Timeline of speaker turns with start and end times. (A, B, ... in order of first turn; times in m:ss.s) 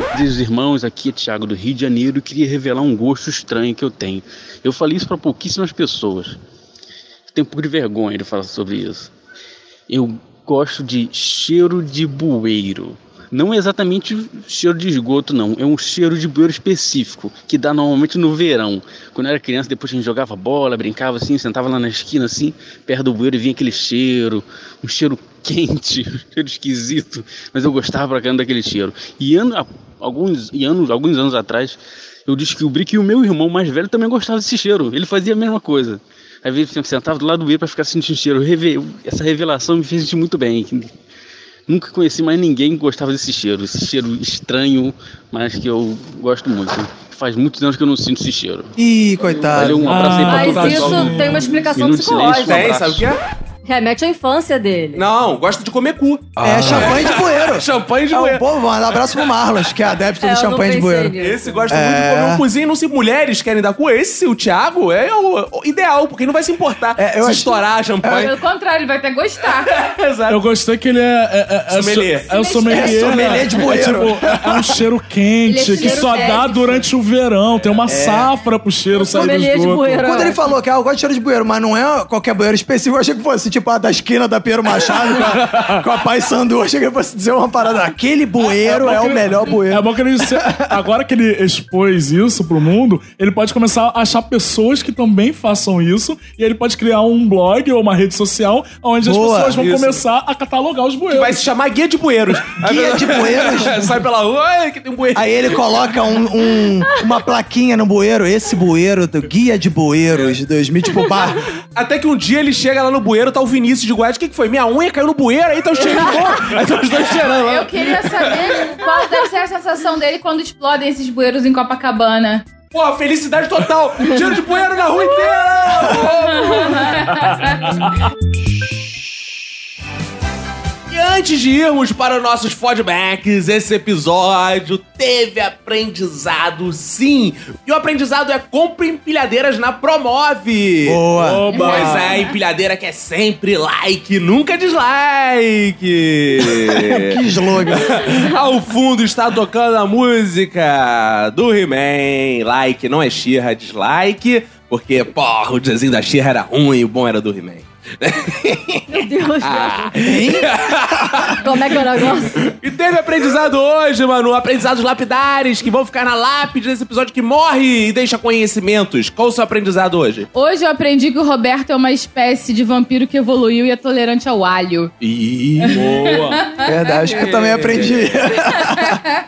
0:00.1-0:06.4 A
0:07.3-0:09.1 A
0:09.9-0:40.9 A
0:41.7-0:53.1 A
0:48.8-0:50.0 B
0:49.8-0:51.7 C
0:50.2-0:52.7 D
0:52.4-0:53.2 E
0:53.6-0:55.0 D
0:55.0-0:58.4 E
0:56.4-1:01.1 B
1:00.2-1:01.6 D
1:01.2-1:08.4 E
1:01.7-1:02.4 B
1:07.0-1:08.3 B
1:08.1-1:09.7 F
1:09.5-1:10.4 E
1:10.3-1:20.2 C
1:11.7-1:12.3 E
1:12.2-1:13.6 F
1:12.7-1:14.7 B
1:15.4-1:16.8 F
1:15.7-1:16.4 D
1:17.8-1:18.3 B
1:19.0-1:20.4 D
1:20.0-1:30.7 B
1:25.3-1:25.8 C
1:28.5-1:41.4 C
1:39.0-1:39.6 B
1:39.6-1:40.0 E
1:41.1-1:45.9 E
1:42.6-1:43.9 B
1:45.1-1:51.5 B
1:51.7-1:58.8 E
1:57.4-2:02.4 F
2:02.7-2:07.0 E
2:06.0-2:07.7 F
2:10.9-2:21.0 E
2:20.8-2:21.4 B
2:21.2-2:22.2 C
2:21.5-2:22.3 F
2:21.5-2:41.4 E
2:26.5-2:28.2 B
2:38.9-2:40.0 D
2:40.0-2:41.3 B
2:41.3-2:42.4 D
2:42.4-2:50.3 E
2:50.3-2:54.9 F
2:55.0-2:55.9 E
2:55.6-2:57.3 F
2:55.7-2:56.4 C
2:56.6-2:59.0 B
2:57.1-2:58.2 E
2:58.4-2:59.0 F